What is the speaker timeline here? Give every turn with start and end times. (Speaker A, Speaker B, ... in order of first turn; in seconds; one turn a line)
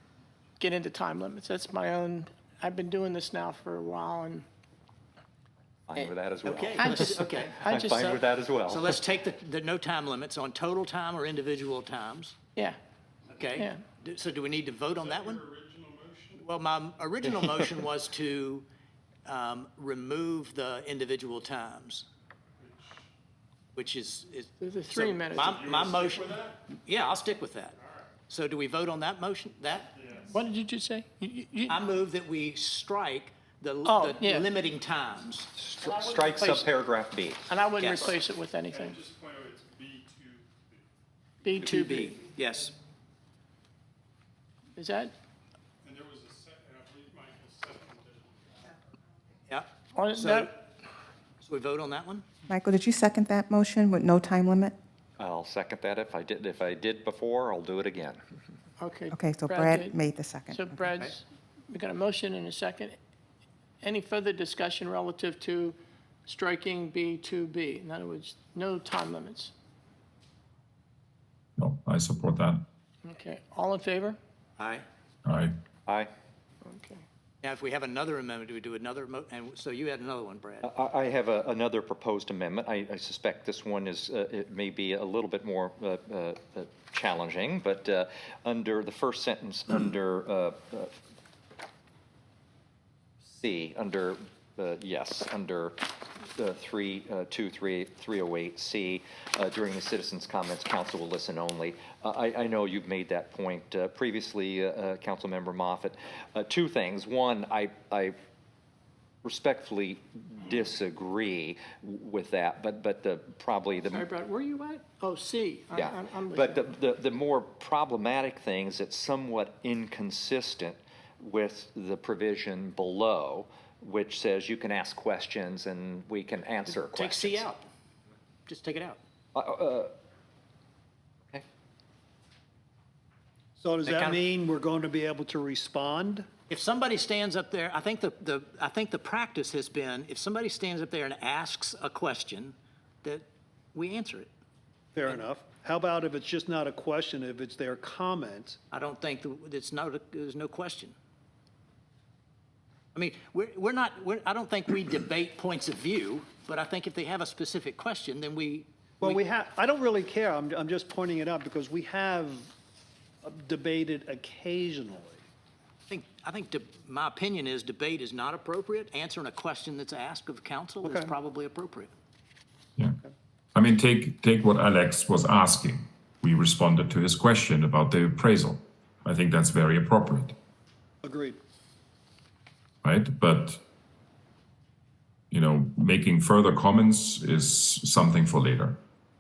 Speaker A: 0.6-4.5
Speaker B: 5.9-9.0
Speaker C: 6.4-7.5
Speaker A: 6.8-8.2
Speaker C: 8.7-12.4
Speaker C: 13.3-15.4
Speaker A: 13.5-13.8
Speaker D: 14.9-16.4
Speaker C: 16.4-18.7
Speaker C: 19.2-22.1
Speaker D: 22.6-23.1
Speaker C: 23.7-27.8
Speaker A: 24.6-25.6
Speaker D: 25.3-26.6
Speaker D: 27.8-28.1
Speaker C: 28.3-29.9
Speaker D: 29.9-30.4
Speaker A: 30.3-31.8
Speaker C: 31.7-35.5
Speaker A: 33.8-34.5
Speaker B: 35.5-37.4
Speaker A: 35.9-36.7
Speaker A: 37.5-39.0
Speaker C: 37.8-38.2
Speaker D: 38.7-40.9
Speaker A: 41.4-42.2
Speaker C: 41.6-42.8
Speaker A: 44.8-45.1
Speaker D: 45.8-48.7
Speaker C: 49.5-50.6
Speaker A: 50.0-50.5
Speaker C: 51.4-52.3
Speaker E: 52.5-54.8
Speaker B: 55.2-58.2
Speaker A: 58.8-63.0
Speaker E: 59.1-60.8
Speaker A: 63.8-69.5
Speaker F: 71.6-72.6
Speaker A: 73.0-74.2
Speaker C: 74.6-74.8
Speaker F: 75.2-75.5
Speaker A: 76.6-77.0
Speaker C: 77.4-80.7
Speaker B: 80.6-90.9
Speaker B: 93.3-108.1
Speaker B: 109.2-114.1
Speaker A: 113.9-116.8
Speaker B: 115.7-127.4
Speaker C: 126.7-127.7
Speaker C: 128.5-129.0
Speaker B: 129.3-129.9
Speaker G: 133.6-136.3
Speaker C: 133.8-134.2
Speaker C: 136.5-144.3
Speaker G: 144.9-148.6
Speaker C: 148.7-150.9
Speaker C: 152.9-159.2
Speaker G: 159.0-162.5
Speaker G: 163.2-165.2
Speaker C: 165.9-171.9
Speaker G: 170.8-171.1
Speaker F: 173.6-180.4
Speaker G: 181.0-181.4
Speaker F: 182.8-183.6
Speaker F: 185.3-188.8